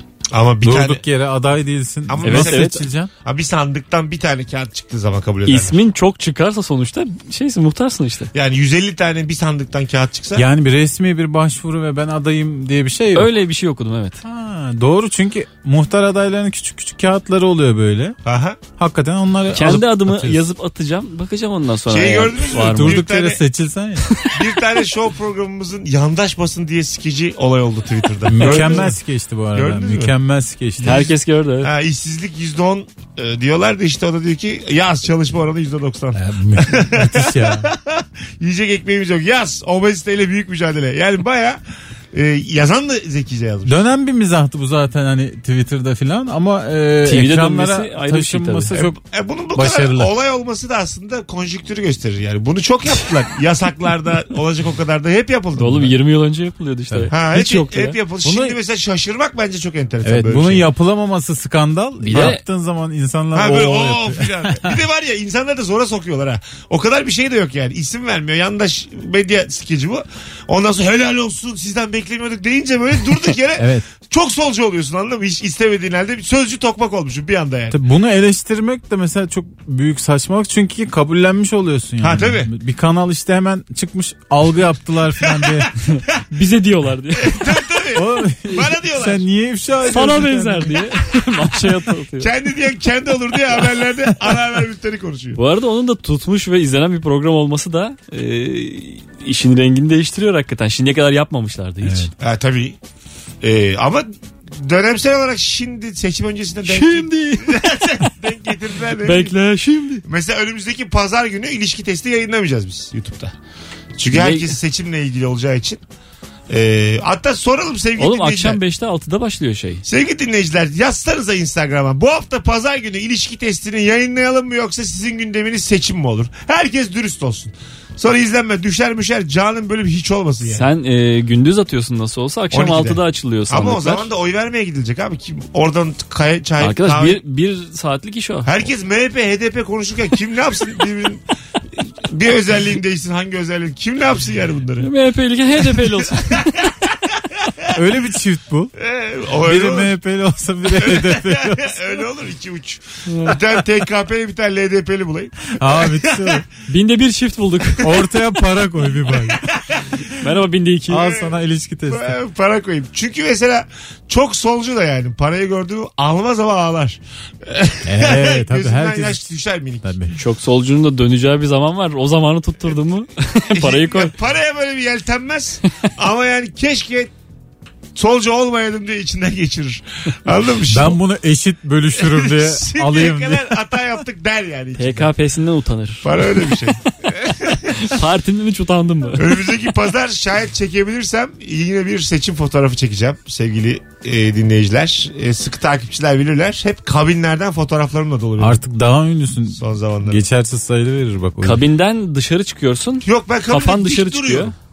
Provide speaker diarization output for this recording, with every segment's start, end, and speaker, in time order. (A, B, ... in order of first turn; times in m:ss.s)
0:00.3-0:01.0 A
0:00.6-0:03.1 B
0:02.1-0:02.7 A
0:02.2-0:02.8 C
0:03.2-0:05.8 A
0:05.4-0:08.3 C
0:08.3-0:10.4 A
0:10.3-0:13.3 B
0:13.1-0:14.2 C
0:14.2-0:18.2 B
0:18.2-0:18.6 A
0:18.8-0:20.4 B
0:19.5-0:23.0 C
0:21.9-0:23.4 A
0:22.7-0:24.1 B
0:24.1-0:24.4 C
0:24.3-0:28.9 A
0:28.2-0:31.0 B
0:28.4-0:28.9 C
0:29.5-0:30.1 A
0:30.8-0:41.6 A
0:30.8-0:31.7 C
0:36.1-0:37.7 B
0:42.1-0:43.7 A
0:43.6-0:49.0 B
0:47.0-0:48.9 C
0:48.8-0:55.9 A
0:49.5-0:50.1 B
0:55.6-0:58.0 C
0:57.1-1:00.6 A
0:58.2-0:58.6 B
1:00.0-1:04.8 B
1:02.0-1:02.4 C
1:03.3-1:17.8 A
1:13.6-1:13.8 B
1:17.7-1:25.7 B
1:22.0-1:22.5 A
1:25.2-1:25.6 A
1:25.9-1:27.5 C
1:27.2-1:29.2 A
1:27.9-1:30.8 B
1:29.9-1:32.3 C
1:32.2-1:35.4 A
1:35.4-1:42.1 C
1:41.8-1:42.1 B
1:42.2-1:42.8 A
1:43.4-1:49.3 A
1:46.6-1:47.8 C
1:48.9-1:50.0 C
1:50.0-1:53.3 A
1:54.0-1:55.8 A
1:54.1-1:54.6 C
1:56.5-1:58.6 A
1:58.0-1:59.8 C
1:59.8-2:10.7 A
2:10.5-2:14.1 C
2:12.5-2:17.2 A
2:16.6-2:18.7 C
2:18.4-2:21.2 A
2:21.8-2:24.9 A
2:24.8-2:26.5 C
2:26.4-2:26.7 A
2:27.7-2:28.7 B
2:28.8-2:29.9 A
2:29.4-2:32.0 B
2:30.7-2:36.4 A
2:33.1-2:33.4 C
2:35.6-2:36.4 B
2:36.7-2:38.0 C
2:37.8-2:39.4 B
2:39.1-2:40.0 A
2:40.1-2:41.1 C
2:40.9-2:42.2 B
2:41.0-2:41.4 A
2:41.9-2:49.9 A
2:47.8-2:49.2 B
2:49.8-2:50.1 B
2:50.1-2:54.1 C
2:53.5-2:57.1 A
2:57.9-3:01.0 A
3:00.7-3:03.6 B
3:02.0-3:05.1 A
3:04.8-3:06.6 C
3:06.0-3:08.0 A
3:07.8-3:09.5 C
3:09.2-3:18.6 A
3:18.4-3:21.6 B
3:19.5-3:20.2 A
3:21.4-3:24.5 C
3:23.0-3:24.5 A